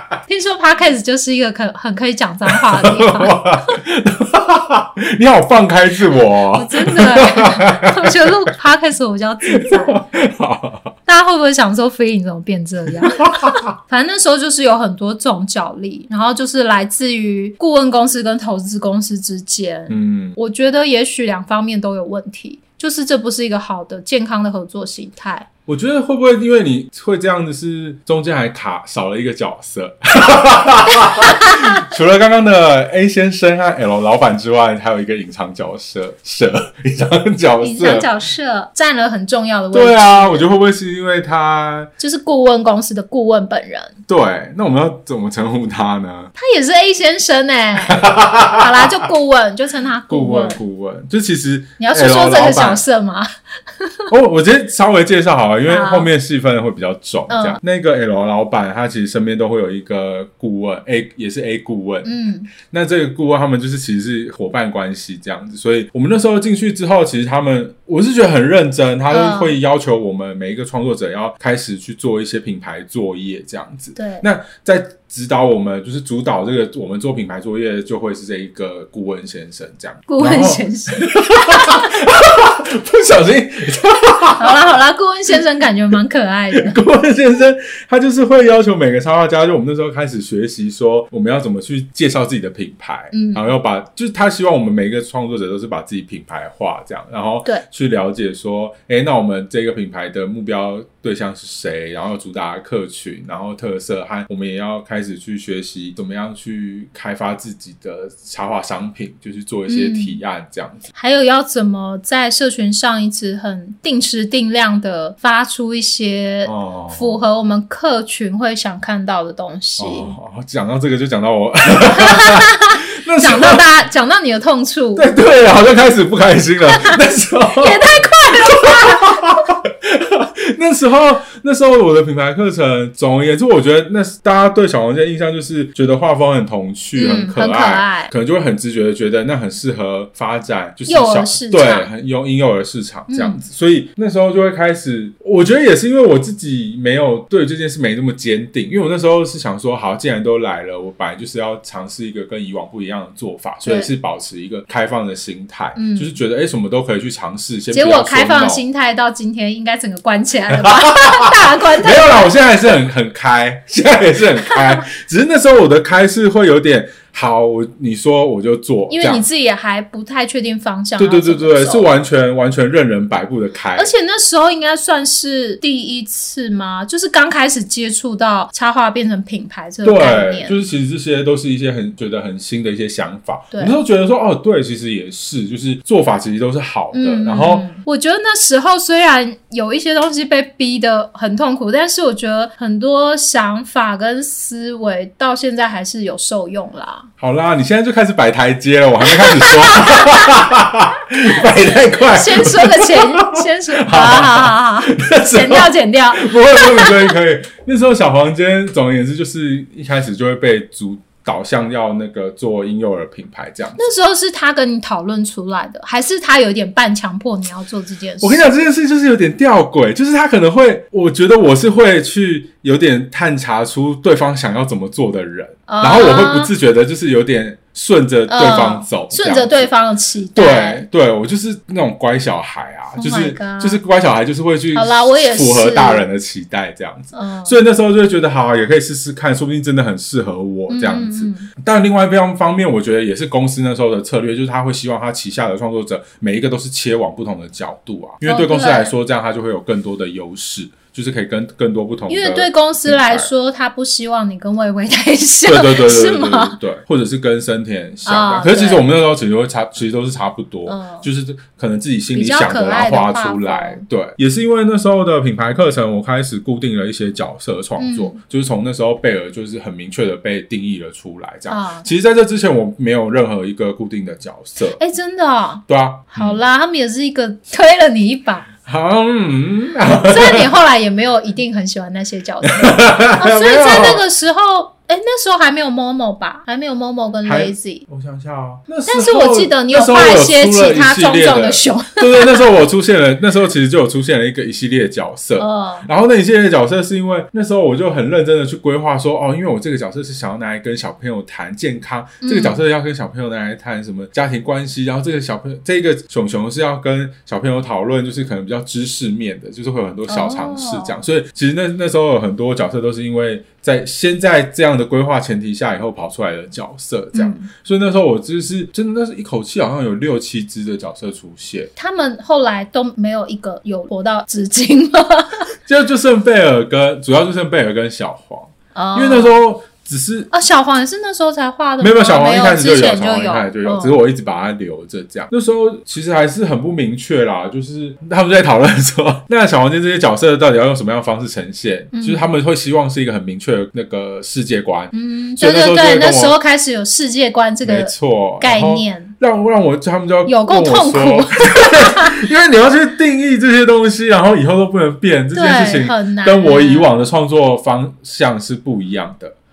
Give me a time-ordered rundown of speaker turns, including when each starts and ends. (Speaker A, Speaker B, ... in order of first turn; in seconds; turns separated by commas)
Speaker A: 0.3-3.8, Speaker B: 2.5-8.3, Speaker A: 6.5-10.0, Speaker B: 9.5-10.9, Speaker A: 11.1-25.5, Speaker B: 13.0-13.7, Speaker B: 19.9-20.4, Speaker B: 25.7-38.1, Speaker A: 31.4-31.6, Speaker A: 37.6-40.5, Speaker B: 39.7-41.9, Speaker A: 42.0-43.9, Speaker B: 44.1-46.3, Speaker A: 46.4-50.6, Speaker B: 47.9-49.0, Speaker B: 50.1-52.8, Speaker A: 51.8-54.1, Speaker B: 54.1-84.7, Speaker A: 55.7-56.1, Speaker A: 57.3-57.6, Speaker A: 62.0-62.5, Speaker A: 69.1-69.6, Speaker A: 74.0-74.2, Speaker A: 80.1-81.9, Speaker A: 84.4-86.8, Speaker B: 86.5-110.9, Speaker A: 93.1-93.5, Speaker A: 109.7-110.2, Speaker A: 110.9-120.2, Speaker B: 116.4-117.2, Speaker B: 119.8-123.6, Speaker A: 121.8-125.1, Speaker B: 125.0-158.6, Speaker A: 126.7-129.4, Speaker A: 136.9-138.1, Speaker A: 140.9-141.9, Speaker A: 143.1-143.4, Speaker A: 153.6-153.9, Speaker A: 155.8-156.1, Speaker A: 157.7-162.6, Speaker B: 160.5-169.2, Speaker A: 168.9-171.9, Speaker B: 171.0-173.9, Speaker A: 173.8-180.6, Speaker B: 179.8-187.7, Speaker A: 183.5-183.8, Speaker A: 186.9-197.1, Speaker B: 197.2-213.9, Speaker A: 199.1-200.3, Speaker A: 201.9-207.1, Speaker A: 213.8-218.5, Speaker B: 218.2-229.7, Speaker A: 225.7-226.5, Speaker A: 228.3-230.8, Speaker B: 230.3-253.3, Speaker A: 232.9-233.8, Speaker A: 234.7-236.1, Speaker A: 237.1-237.6, Speaker A: 240.7-241.5, Speaker A: 248.2-248.9, Speaker A: 252.1-256.6, Speaker B: 255.4-274.8, Speaker A: 258.0-258.8, Speaker A: 260.6-261.1, Speaker A: 262.1-263.8, Speaker A: 267.8-268.2, Speaker A: 271.5-271.9, Speaker A: 274.8-278.5, Speaker B: 275.7-276.4, Speaker B: 278.6-280.6, Speaker A: 280.1-287.8, Speaker B: 282.4-284.0, Speaker B: 287.2-321.7, Speaker A: 288.9-292.5, Speaker A: 295.4-295.9, Speaker A: 302.2-302.6, Speaker A: 310.1-311.0, Speaker A: 317.1-317.5, Speaker A: 321.8-325.5, Speaker B: 325.6-330.3, Speaker A: 328.7-329.4, Speaker A: 330.3-334.0, Speaker B: 331.8-346.4, Speaker A: 341.9-342.2, Speaker A: 344.9-349.1, Speaker B: 347.6-359.4, Speaker A: 350.2-352.2, Speaker A: 355.3-356.9